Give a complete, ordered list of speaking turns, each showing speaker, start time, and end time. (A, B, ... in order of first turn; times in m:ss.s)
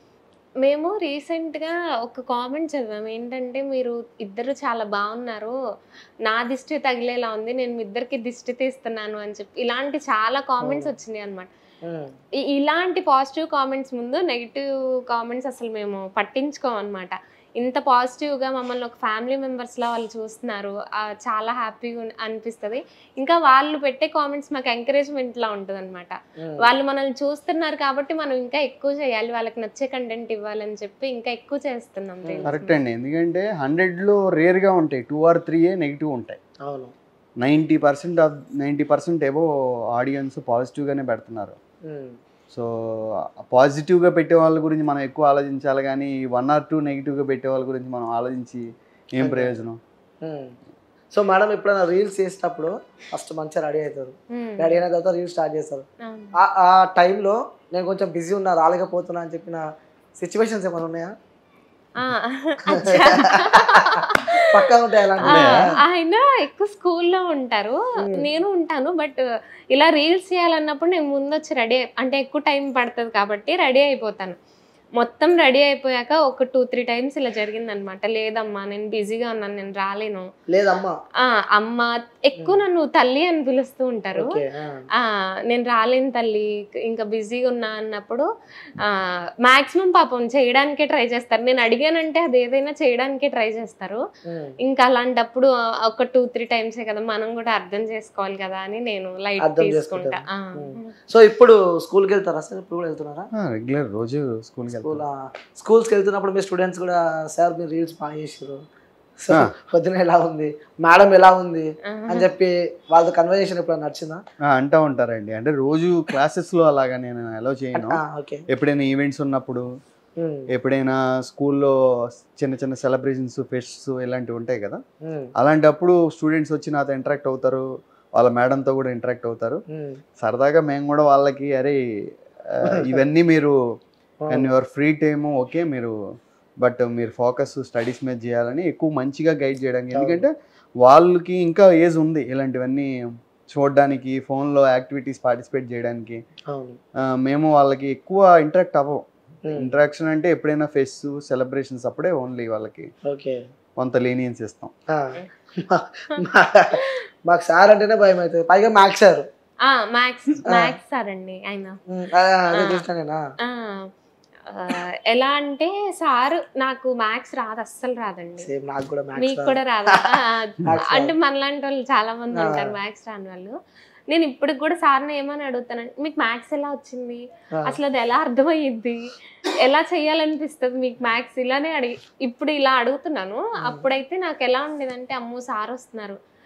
0:00.6-0:05.5 A
0:06.3-0:11.5 A
0:10.6-0:10.9 B
0:12.5-0:32.8 A
0:26.4-0:26.7 B
0:32.4-0:36.4 C
0:36.6-0:36.9 B
0:37.4-0:41.6 C
0:41.9-0:42.1 B
0:43.5-0:48.6 C
0:49.1-0:49.8 C
0:49.2-0:49.6 B
0:50.2-0:50.5 B
0:51.1-0:55.8 B
0:54.3-0:54.8 A
0:56.0-0:56.4 A
0:56.4-0:59.6 B
1:00.2-1:01.1 B
1:02.0-1:04.7 A
1:02.7-1:05.7 B
1:05.2-1:09.2 A
1:05.2-1:05.7 C
1:08.0-1:08.3 B
1:09.7-1:14.4 A
1:15.0-1:20.3 A
1:20.5-1:20.9 B
1:21.2-1:24.4 A
1:22.4-1:22.6 B
1:24.1-1:24.8 B
1:25.5-1:28.2 A
1:28.8-1:34.0 A
1:34.3-1:34.5 B
1:34.6-1:40.9 A
1:39.4-1:43.3 B
1:43.4-1:45.0 C
1:44.7-1:48.6 B
1:49.2-1:54.2 B
1:51.9-1:52.3 A
1:54.5-1:58.0 C
1:57.7-1:58.4 B
1:58.5-1:59.6 C
2:00.2-2:00.5 B
2:00.5-2:01.7 C
2:02.4-2:04.8 C
2:05.4-2:07.6 C
2:08.2-2:09.6 C
2:09.7-2:10.0 B
2:10.2-2:11.8 C
2:12.5-2:13.5 C
2:14.2-2:14.5 B
2:14.3-2:15.9 C
2:16.6-2:20.3 C
2:19.9-2:20.2 B
2:20.8-2:22.9 C
2:23.5-2:26.2 C
2:26.5-2:26.8 B
2:27.2-2:29.0 C
2:29.6-2:32.9 C
2:33.1-2:33.4 B
2:33.8-2:34.7 C
2:34.9-2:39.2 B
2:36.1-2:37.0 A
2:39.6-2:41.8 A
2:41.9-2:43.2 B
2:42.5-2:42.8 A
2:43.4-2:43.9 A
2:44.5-2:48.5 A
2:48.4-2:50.1 B
2:49.2-2:53.5 A
2:50.7-2:51.1 B
2:52.3-2:52.7 B
2:54.1-3:06.2 A